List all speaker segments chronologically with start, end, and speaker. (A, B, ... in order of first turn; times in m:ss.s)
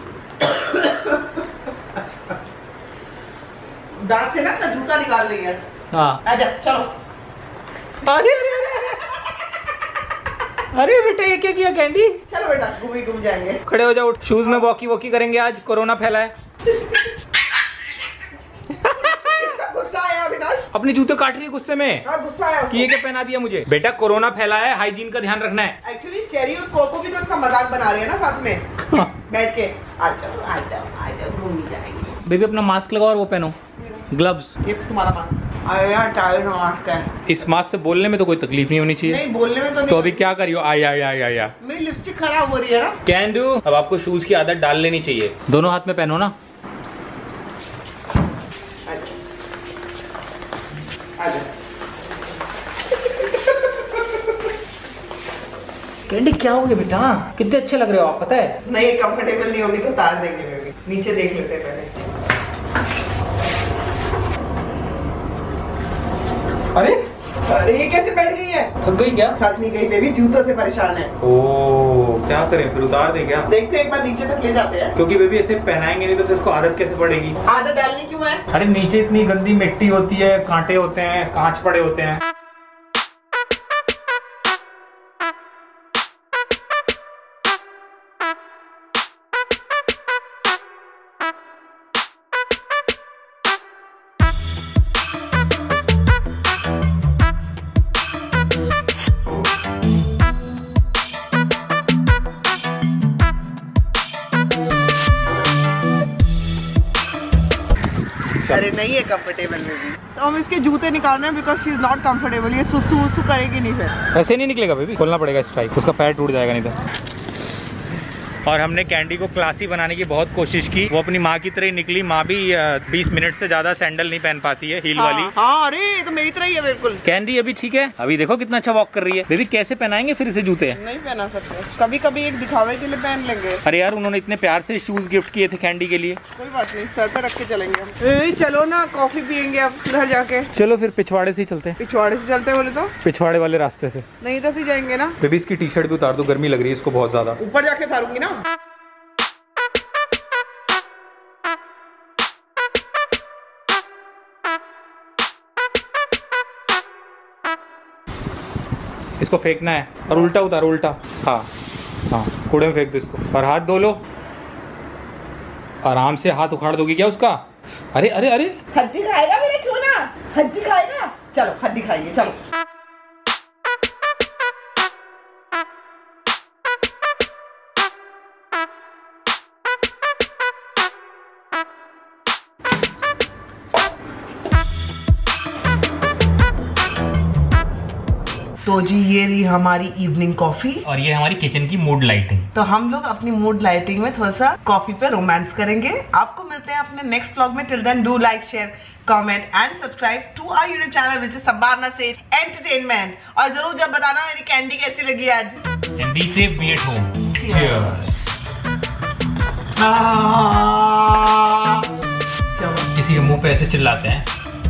0:00.4-0:01.4 A
0:04.0-0:05.6 A
0:05.9-0:06.2 B
0:06.2-0:06.9 A
0:08.0-0:09.0 B
0:08.3-0:09.2 A
0:10.7-0:12.2 B
0:12.3-0:13.6 A
0:13.7-0:16.3 B
0:16.7-0:17.1 A
0:18.8-0:20.7 A
0:18.8-0:19.4 B
0:20.7-0:22.0 B
0:22.0-0:22.9 A
0:22.7-0:25.8 B
0:25.8-0:28.7 A
0:29.2-0:32.2 A
0:32.2-0:33.6 B
0:33.8-0:34.1 A
0:34.1-0:34.5 B
0:34.6-0:37.1 A
0:37.3-0:39.2 B
0:39.0-0:40.3 A
0:39.9-0:41.5 B
0:41.6-0:43.0 A
0:43.1-0:46.3 B
0:48.9-0:49.2 A
0:51.2-0:51.5 A
0:56.1-0:58.6 B
0:58.6-1:02.0 A
1:06.7-1:07.0 B
1:07.4-1:08.7 A
1:08.8-1:09.4 B
1:09.4-1:11.1 A
1:11.2-1:13.5 B
1:13.5-1:15.0 A
1:15.0-1:17.4 B
1:17.5-1:18.5 A
1:18.5-1:22.2 B
1:48.5-1:54.0 A
1:54.1-1:56.8 B
1:58.5-2:05.3 B
2:05.0-2:07.0 A
2:07.0-2:10.8 B
2:10.7-2:13.6 A
2:13.6-2:16.2 B
2:16.4-2:20.5 A
2:20.6-2:21.8 B
2:21.8-2:23.0 A
2:23.0-2:24.1 B
2:24.2-2:25.2 A
2:25.2-2:27.4 B
2:27.4-2:28.4 A
2:39.2-2:41.5 B
2:42.1-2:44.0 B
2:45.8-2:47.4 B
2:47.9-2:48.6 B
2:48.7-2:52.4 A
3:08.6-3:10.8 A
3:10.9-3:12.5 B
3:12.5-3:25.6 A
3:26.0-3:28.2 B
3:27.4-3:28.2 A
3:29.8-3:31.7 A
3:32.6-3:32.9 A
3:32.9-3:34.2 B